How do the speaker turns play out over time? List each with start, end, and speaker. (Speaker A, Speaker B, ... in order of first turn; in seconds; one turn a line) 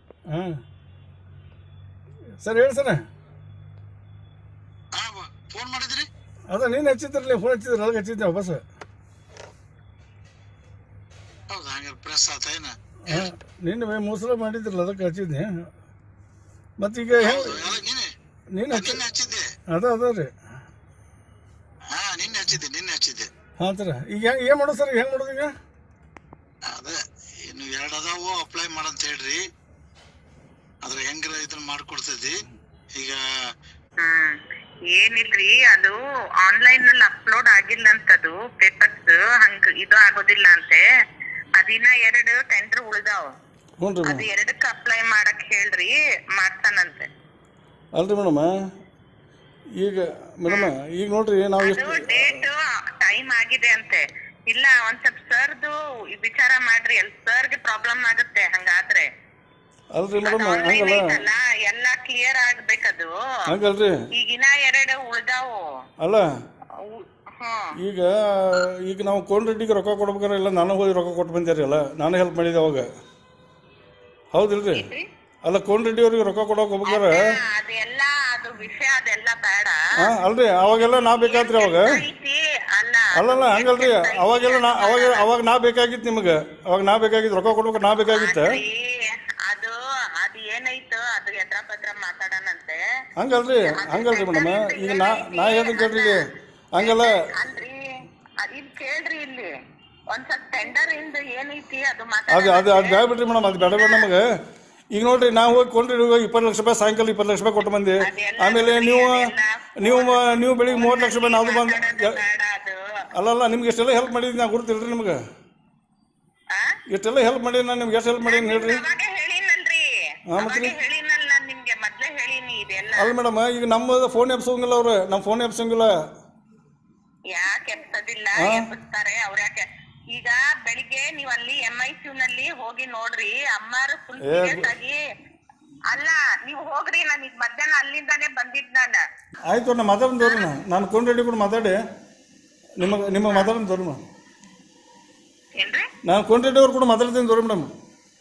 Speaker A: 0.3-0.6
Speaker A: 2.4-3.1
Speaker B: 4.9-6.1
Speaker A: 6.5-8.6
Speaker B: 11.5-13.3
Speaker A: 13.1-15.7
Speaker A: 16.8-17.8
Speaker B: 17.2-18.1
Speaker A: 18.5-19.0
Speaker B: 18.7-19.5
Speaker A: 19.7-20.3
Speaker B: 21.9-23.3
Speaker A: 23.6-25.6
Speaker B: 26.7-29.4
Speaker B: 30.8-32.4
Speaker B: 33.0-33.2
Speaker C: 34.0-40.8
Speaker C: 41.6-43.3
Speaker A: 43.8-44.3
Speaker C: 44.0-47.1
Speaker A: 47.9-48.5
Speaker A: 49.8-52.4
Speaker C: 51.6-59.1
Speaker A: 59.9-61.2
Speaker C: 60.2-63.1
Speaker A: 63.5-64.0
Speaker C: 64.2-65.7
Speaker A: 66.0-66.3
Speaker C: 66.8-67.8
Speaker A: 67.8-72.9
Speaker A: 74.3-74.9
Speaker C: 74.7-75.0
Speaker A: 75.4-77.3
Speaker C: 76.9-79.8
Speaker A: 80.0-82.0
Speaker C: 81.0-85.3
Speaker A: 83.2-88.5
Speaker C: 88.1-92.8
Speaker A: 93.2-97.1
Speaker C: 93.7-96.2
Speaker C: 96.8-97.8
Speaker C: 98.4-99.5
Speaker C: 100.1-103.0
Speaker A: 102.3-104.3
Speaker C: 103.7-104.1
Speaker A: 104.9-109.3
Speaker C: 108.0-112.8
Speaker A: 109.8-112.2
Speaker A: 113.2-115.2
Speaker A: 116.9-118.8
Speaker C: 118.3-123.1
Speaker A: 120.3-120.7
Speaker A: 123.0-125.9
Speaker C: 127.3-135.0
Speaker A: 128.4-128.7
Speaker A: 134.2-134.7
Speaker C: 135.9-139.0
Speaker A: 139.5-141.8
Speaker C: 140.2-140.5
Speaker A: 142.8-144.0
Speaker C: 142.8-143.6
Speaker C: 145.6-145.9
Speaker A: 146.1-147.7